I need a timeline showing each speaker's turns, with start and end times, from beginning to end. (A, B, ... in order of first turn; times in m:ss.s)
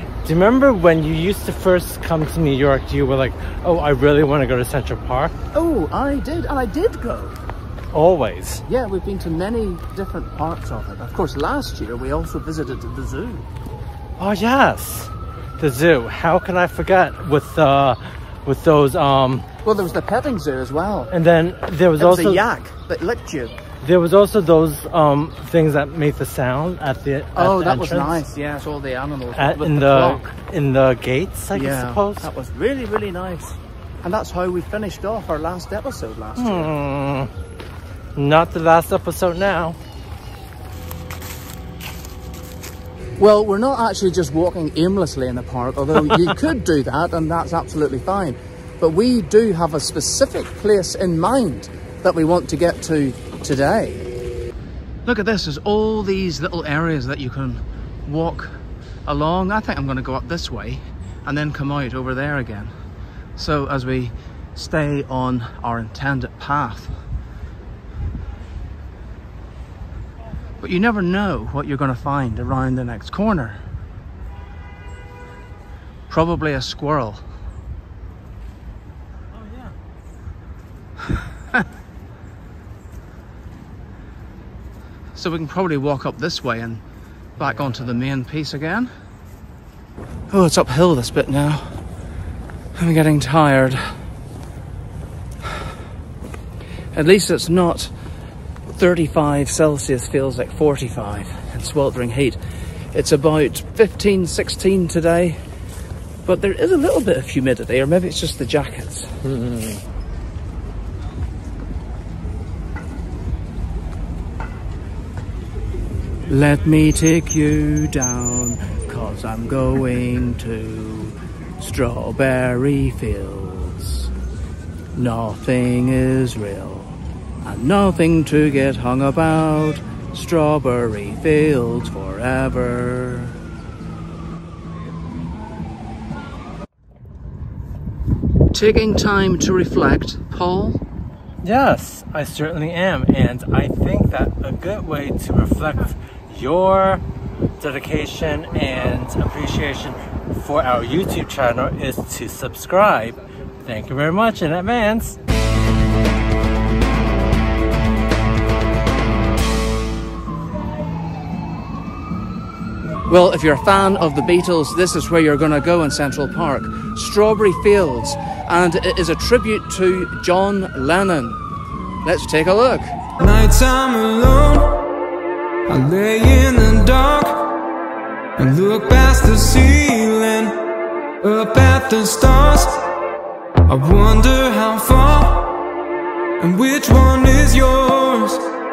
0:00.2-0:05.4 A
0:05.5-0:07.4 B
0:07.9-0:08.6 A
0:08.7-0:13.5 B
0:14.2-0:19.4 A
0:19.6-0:21.1 B
0:21.1-0:22.4 A
0:22.0-0:23.6 B
0:23.8-0:28.2 A
0:27.4-0:30.3 B
0:29.3-0:32.3 A
0:31.6-0:36.7 B
0:36.4-0:37.3 A
0:38.2-0:39.8 A
0:43.2-0:54.0 B
0:55.1-0:58.5 B
0:59.1-1:02.7 B
1:03.4-1:06.9 B
1:10.6-1:13.6 B
1:16.1-1:17.2 B
1:19.4-1:19.7 A
1:25.2-1:26.8 B
1:27.4-1:28.9 B
1:30.3-1:31.6 B
1:32.8-1:33.8 B
1:36.9-1:37.9 B
1:38.7-1:42.4 B
1:42.9-1:45.4 B
1:46.2-1:49.1 B
1:49.3-1:49.8 A
1:56.3-2:04.1 B
2:04.9-2:13.4 B
2:18.5-2:20.8 B
2:21.4-2:27.0 A
2:27.6-2:35.2 A
2:43.1-2:51.4 B
2:52.0-2:53.0 B
2:53.2-2:54.6 C
2:55.7-2:57.4 C
2:58.4-3:00.5 C
3:01.2-3:02.7 C
3:03.7-3:05.6 C
3:06.4-3:08.4 C